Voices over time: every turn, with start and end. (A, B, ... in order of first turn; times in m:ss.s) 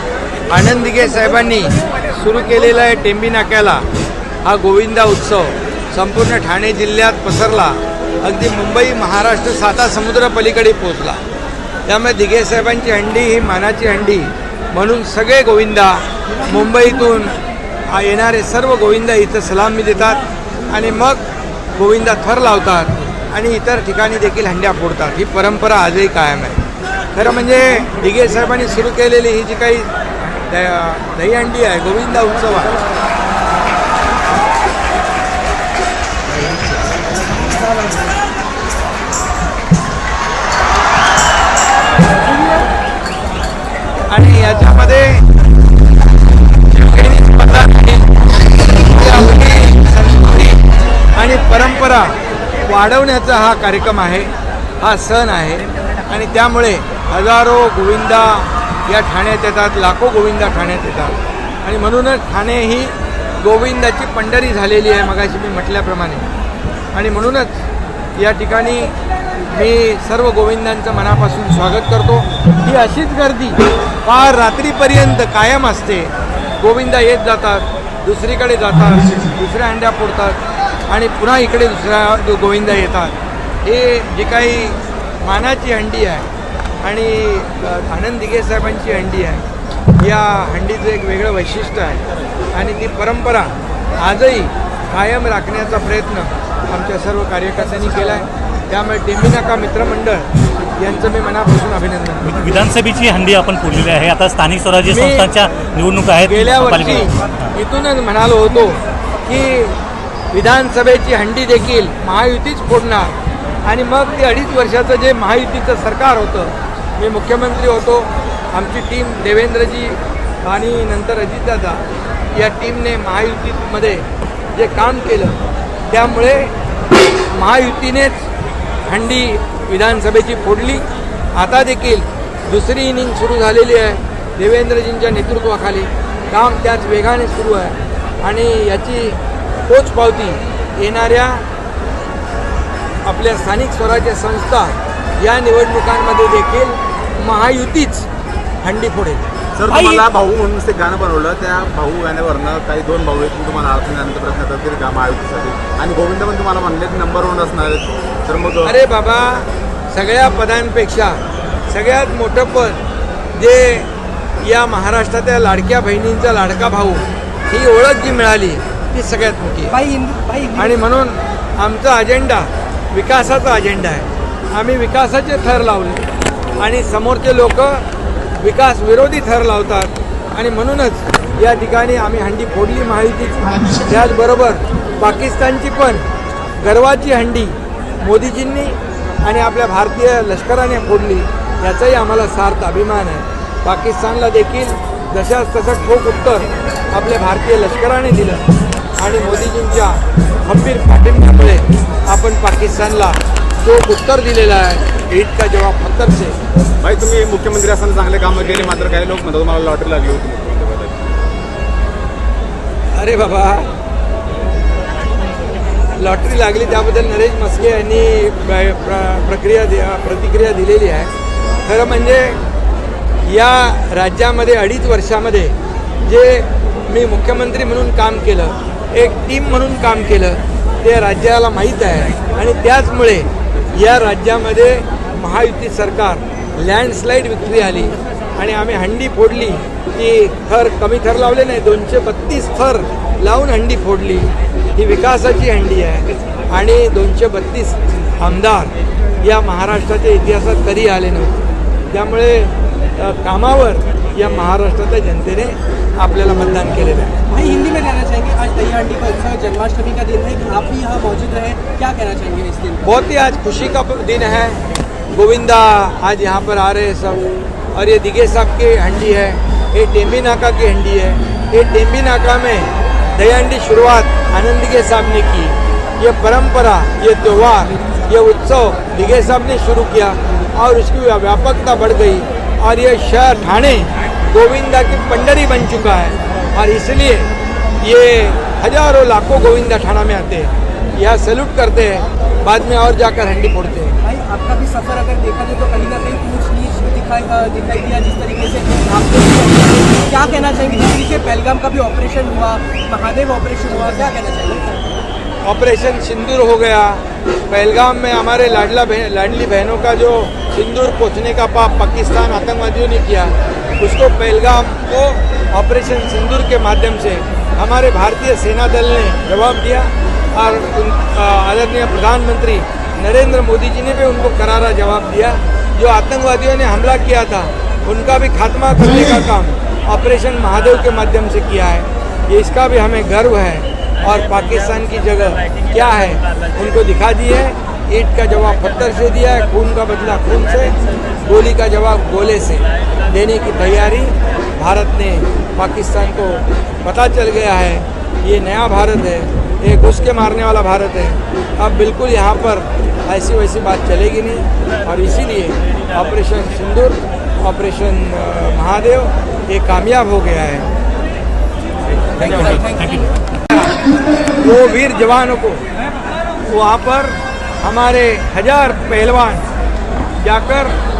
0:00.5-0:03.8 A
0:04.4-0:11.2 A
0:11.9-0:17.3 A
0:17.9-0:21.2 A
0:21.8-0:26.6 A
0:27.1-0:32.8 A
0:44.1-0:45.3 A
0:46.6-0:50.6 A
0:51.1-1:06.3 A
1:06.9-1:07.5 A
1:08.2-1:08.9 A
1:09.5-1:26.3 A
1:26.8-1:29.4 A
1:30.0-1:32.0 A
1:32.5-1:40.3 A
1:40.8-1:42.3 A
1:42.2-1:47.5 B
1:44.9-1:45.3 A
1:46.2-1:49.8 A
1:50.3-2:01.8 A
2:02.3-2:06.5 A
2:07.3-2:08.3 A
2:08.9-2:21.4 A
2:23.0-2:28.1 A
2:28.6-2:29.2 A
2:29.6-2:38.8 C
2:29.7-2:30.0 D
2:38.6-2:41.2 A
2:41.7-2:42.8 A
2:43.4-2:43.9 A
2:44.4-2:49.8 A
2:49.7-2:50.8 D
2:50.6-2:56.1 A
2:56.6-2:57.8 A
2:58.4-3:06.0 A
3:06.6-3:18.4 A
3:19.0-3:26.4 A
3:26.8-3:31.0 C
3:32.9-3:33.7 A
3:35.9-3:41.1 A
3:41.6-3:42.4 A
3:43.2-4:17.2 A
4:17.3-4:22.9 D
4:22.8-4:24.6 A
4:25.1-4:47.3 A
4:47.8-4:54.0 A
4:54.0-5:04.8 D
5:05.4-6:00.7 A
6:02.2-6:02.7 A
6:02.3-6:02.6 B
6:04.4-6:05.6 A
6:06.5-6:09.4 A
6:10.2-6:10.7 A